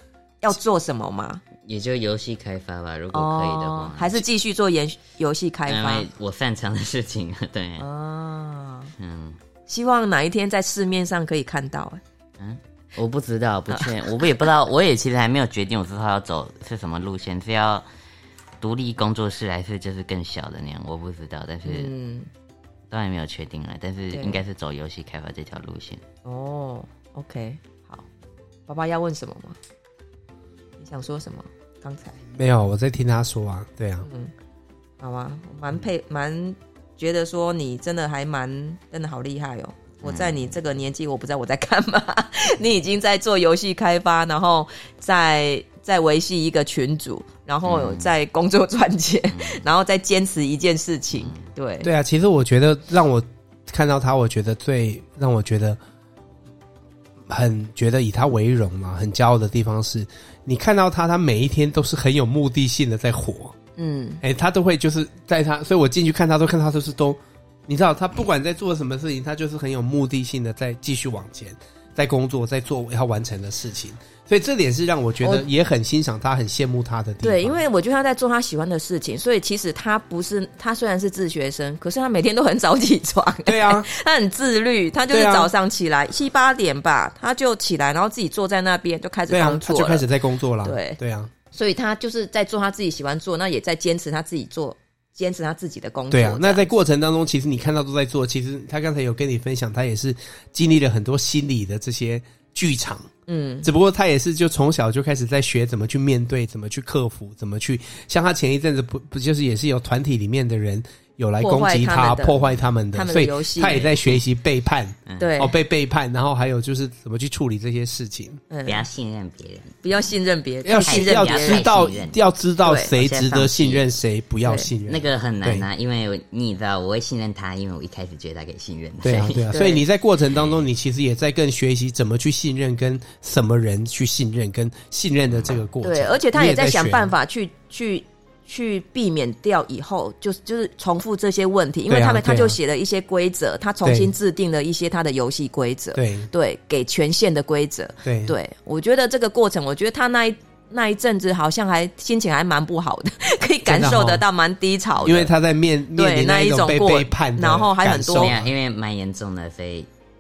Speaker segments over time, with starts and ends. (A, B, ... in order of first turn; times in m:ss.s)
0:00.4-0:01.4 A
0:01.6-0:04.2 B
0:03.1-0:06.1 A
0:05.7-0:07.8 B
0:07.8-0:08.9 A
0:09.0-0:09.4 B
0:09.7-0:12.0 A
0:12.4-0:17.8 B
0:13.7-0:14.2 A
0:18.6-0:21.9 B
0:21.6-0:22.3 A
0:22.9-0:26.0 B
0:24.1-0:24.4 A
0:26.2-0:28.1 A
0:28.7-0:29.6 A
0:30.8-0:32.2 A
0:32.3-0:34.1 C
0:34.0-0:34.3 A
0:35.0-0:51.9 A
0:40.1-0:40.4 B
0:47.7-0:48.1 B
0:49.3-0:49.6 B
0:51.8-0:55.8 C
0:57.3-1:03.6 C
1:03.8-1:04.2 A
1:04.2-1:17.6 C
1:17.2-1:30.0 A
1:23.5-1:23.9 C
1:25.1-1:25.5 C
1:29.3-1:31.3 C
1:30.6-1:31.0 A
1:31.5-1:36.6 A
1:36.1-1:43.1 C
1:43.3-1:43.7 A
1:43.6-1:58.4 C
1:51.4-1:53.9 A
1:53.7-1:54.2 B
1:55.2-1:55.6 A
1:58.5-1:58.8 A
1:58.7-1:59.8 B
1:59.8-2:01.7 A
2:00.6-2:05.7 C
2:00.8-2:02.2 B
2:02.6-2:02.9 A
2:02.9-2:03.9 B
2:04.9-2:09.6 B
2:09.0-2:17.1 C
2:09.5-2:09.8 A
2:15.3-2:15.6 B
2:15.8-2:35.3 A
2:21.9-2:22.6 C
2:23.8-2:24.1 C
2:26.0-2:26.3 C
2:28.0-2:28.4 C
2:33.7-2:34.2 C
2:35.0-2:38.5 C
2:36.0-2:38.3 A
2:38.1-2:39.9 B